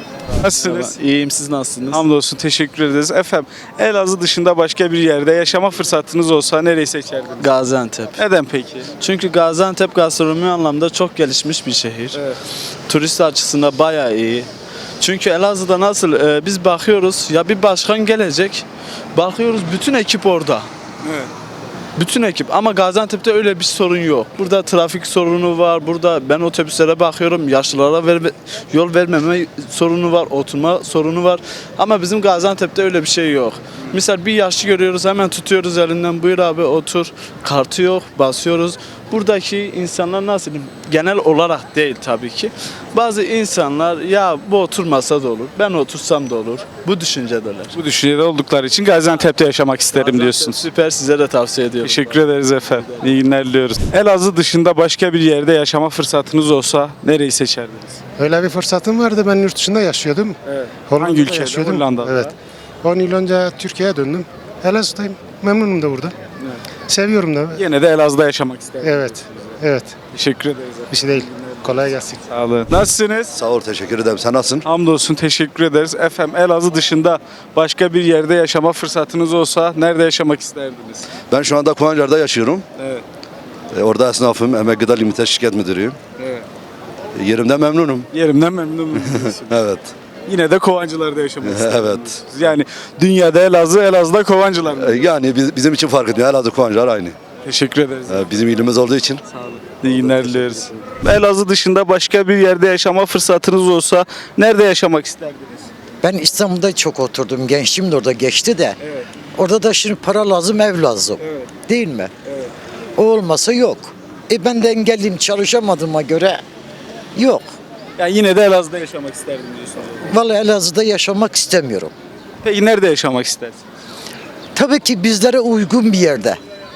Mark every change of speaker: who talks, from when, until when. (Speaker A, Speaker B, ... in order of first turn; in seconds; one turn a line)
Speaker A: 0.4-0.9
Speaker B: 0.5-2.0
Speaker A: 1.9-7.5
Speaker B: 7.4-8.2
Speaker A: 8.2-8.9
Speaker B: 9.0-12.2
Speaker B: 12.9-14.5
Speaker B: 15.0-20.7
Speaker A: 21.0-21.3
Speaker B: 22.0-47.8
Speaker A: 47.8-50.6
Speaker B: 49.9-52.2
Speaker A: 51.8-58.0
Speaker B: 52.8-53.0
Speaker C: 58.2-60.4
Speaker A: 60.5-62.3
Speaker C: 60.9-62.3
Speaker C: 62.8-66.2
Speaker C: 66.9-67.6
Speaker A: 67.5-69.4
Speaker C: 68.8-70.0
Speaker A: 70.1-71.4
Speaker C: 70.9-72.2
Speaker A: 72.3-73.3
Speaker D: 73.3-74.7
Speaker A: 74.7-81.1
Speaker D: 81.3-82.7
Speaker A: 82.8-83.0
Speaker D: 83.7-86.0
Speaker A: 86.2-86.4
Speaker D: 87.2-88.1
Speaker A: 88.1-89.5
Speaker D: 89.3-89.9
Speaker A: 90.3-95.1
Speaker D: 91.4-92.2
Speaker D: 94.7-97.2
Speaker A: 97.4-98.4
Speaker D: 98.1-99.2
Speaker A: 99.3-105.7
Speaker D: 99.8-100.6
Speaker E: 106.0-108.8
Speaker E: 109.4-112.1
Speaker A: 111.2-111.5
Speaker E: 113.0-116.4
Speaker E: 117.2-117.5
Speaker A: 118.0-120.1
Speaker E: 120.1-121.9
Speaker A: 122.4-123.6
Speaker E: 124.5-126.4